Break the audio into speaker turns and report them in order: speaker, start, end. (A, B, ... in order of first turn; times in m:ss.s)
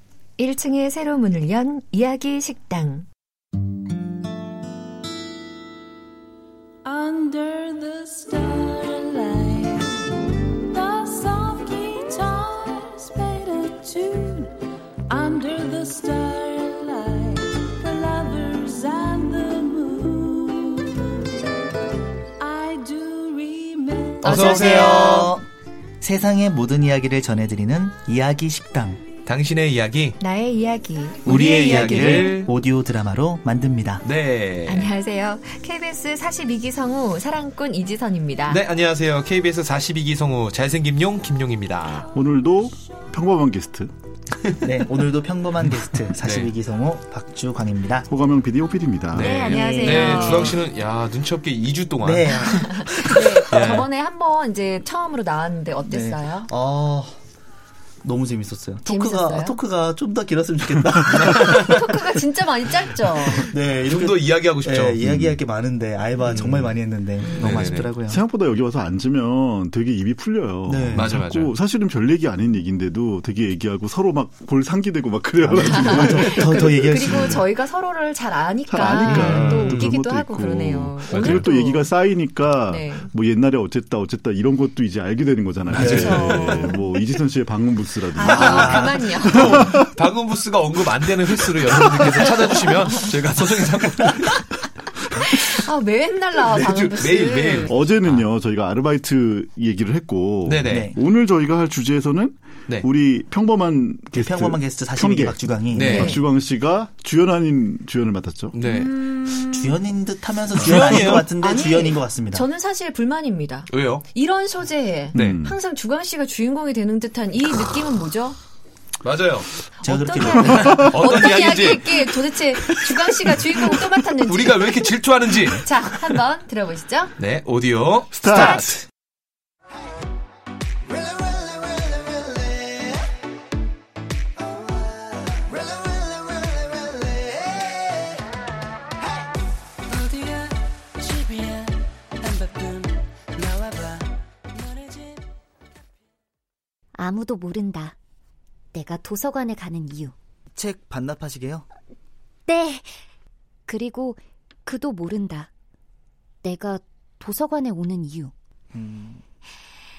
0:00.4-0:03.1 A
0:06.8-0:10.0 B
0:10.7-0:14.5 B
0:15.1-0:20.9 B
0:22.4-0:24.8 B
0:24.2-0:25.4 C
0:24.2-0:25.5 D
0:26.0-0:29.0 D
0:29.2-0:30.2 C
0:30.2-0:32.4 A
0:31.2-0:32.5 C
0:31.2-0:34.0 D
0:34.0-0:34.9 C
0:34.7-0:38.6 A
0:38.5-0:42.1 C
0:42.1-0:43.9 E
0:44.6-0:48.1 D
0:46.1-0:46.6 C
0:48.1-0:49.4 E
0:49.1-0:53.9 C
0:49.2-0:50.6 F
0:49.5-0:50.6 D
0:52.0-0:53.8 D
0:52.5-0:56.5 A
0:55.9-0:57.2 D
0:58.0-1:01.9 D
0:58.8-0:59.6 A
1:01.1-1:02.0 C
1:01.5-1:03.6 A
1:03.3-1:08.2 D
1:03.8-1:05.0 C
1:05.0-1:05.4 E
1:06.2-1:06.8 C
1:07.2-1:07.6 A
1:07.4-1:07.9 C
1:08.1-1:16.7 E
1:10.6-1:11.2 D
1:10.9-1:11.5 C
1:15.4-1:17.5 D
1:15.6-1:23.1 A
1:18.7-1:29.9 E
1:18.9-1:19.9 C
1:21.1-1:21.5 C
1:25.7-1:26.6 D
1:25.7-1:26.8 C
1:26.1-1:26.8 A
1:28.1-1:29.9 A
1:28.2-1:34.5 C
1:28.5-1:29.1 D
1:35.2-1:37.8 A
1:36.5-1:38.3 C
1:37.6-1:48.6 E
1:40.4-1:40.9 C
1:40.7-1:41.0 D
1:44.1-1:46.0 D
1:45.7-1:46.2 C
1:45.9-1:46.2 A
1:48.5-1:49.7 C
1:49.4-1:52.5 D
1:50.5-1:51.3 C
1:51.4-1:58.4 A
1:53.7-1:54.0 C
1:55.1-1:55.6 E
1:55.2-1:55.4 C
1:59.0-1:59.6 C
1:59.8-2:07.2 A
1:59.8-2:00.8 D
2:00.4-2:03.2 C
2:03.7-2:06.0 C
2:07.2-2:08.6 C
2:08.1-2:08.8 E
2:08.3-2:08.8 A
2:27.0-2:28.0 F
2:28.7-2:30.1 F
2:30.6-2:31.7 D
2:32.5-2:32.9 F
2:33.7-2:35.5 F
2:36.4-2:38.3 F
2:38.7-2:39.2 D